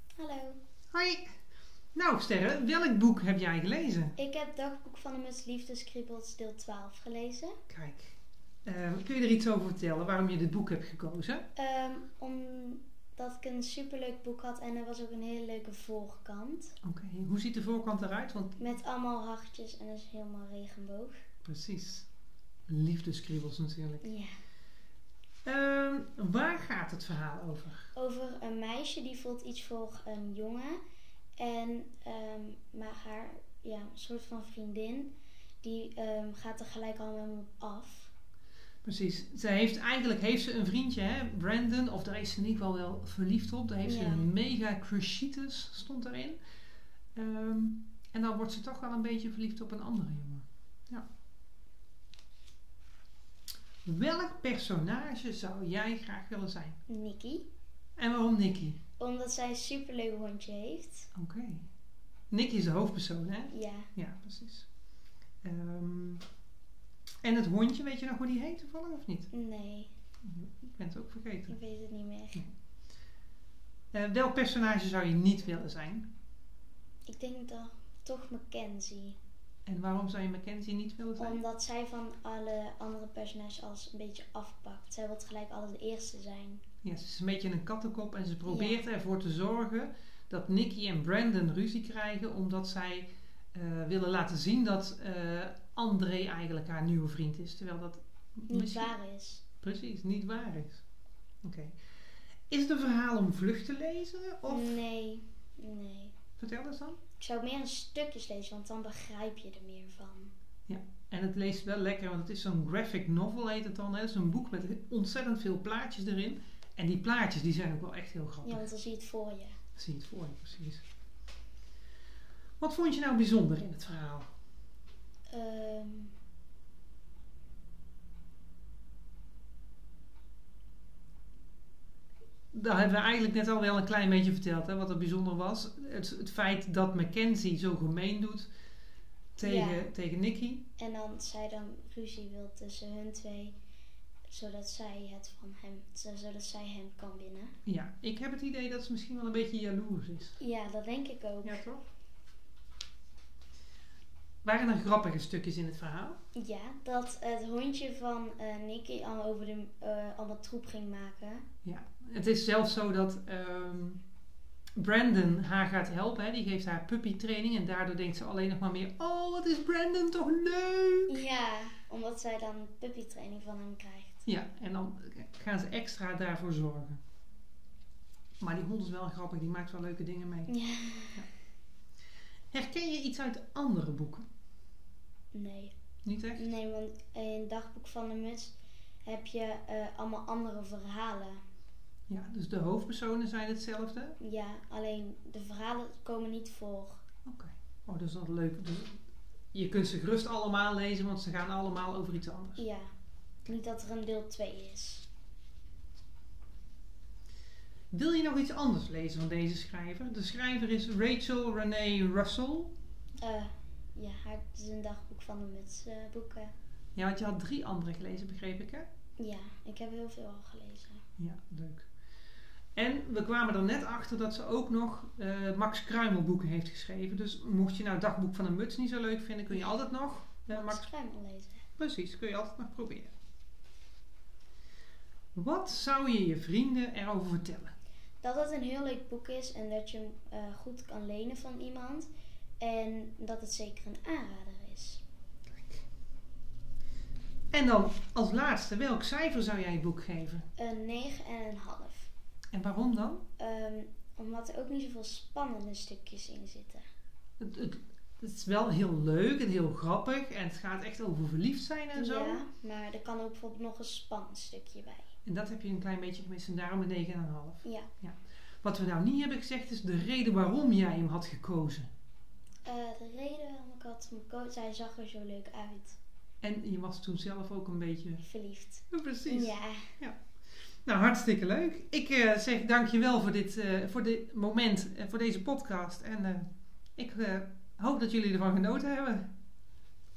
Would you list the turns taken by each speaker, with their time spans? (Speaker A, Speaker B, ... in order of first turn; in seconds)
Speaker A: 0.2-0.6, 4.2-7.6, 11.6-16.8, 18.6-21.2, 24.0-24.4, 27.9-30.8, 31.4-38.1, 43.8-44.3, 56.9-57.5, 59.0-61.1, 63.5-63.9, 69.3-69.9, 71.5-72.4, 77.1-79.2, 81.2-86.6, 88.5-88.8, 98.5-99.5, 104.5-106.2, 107.2-110.3, 118.4-119.6, 125.3-126.1, 139.4-139.9, 140.8-143.6, 144.3-147.6, 150.4-151.6, 156.3-161.4, 171.1-174.2, 180.5-181.2, 185.3-185.7, 186.4-191.4, 194.2-197.0, 202.6-202.9, 203.4-205.1, 213.2-216.5, 219.2-221.0, 230.5-231.7, 238.2-242.1, 242.6-245.0, 250.6-252.1, 253.4-256.8, 261.9-265.1, 267.6-267.9, 272.6-276.0, 278.2-280.0
Speaker B: 0.9-1.4, 1.9-4.2, 7.7-11.5, 16.8-18.6, 21.4-22.1, 22.7-24.1, 25.4-27.9, 38.8-46.4, 47.1-51.1, 53.9-56.8, 58.0-58.8, 61.1-61.7, 62.3-64.7, 65.4-66.2, 67.2-69.3, 70.2-71.6, 73.9-76.1, 79.7-81.4, 86.8-99.0, 99.5-100.8, 101.4-101.8, 102.5-104.8, 106.4-107.1, 110.7-118.7, 119.7-120.8, 122.6-124.3, 132.5-138.5, 139.4-140.7, 147.7-150.4, 151.4-151.8, 154.4-156.2, 161.6-164.0, 164.8-171.2, 174.2-177.0, 178.4-180.5, 182.5-184.3, 186.0-186.5, 192.1-194.2, 197.2-202.6, 207.9-212.7, 216.9-218.9, 221.2-221.9, 222.8-230.9, 231.7-233.1, 235.3-237.7, 247.5-250.5, 252.5-253.3, 257.4-262.4, 265.2-271.9, 276.4-278.2, 278.9-280.2, 280.9-289.3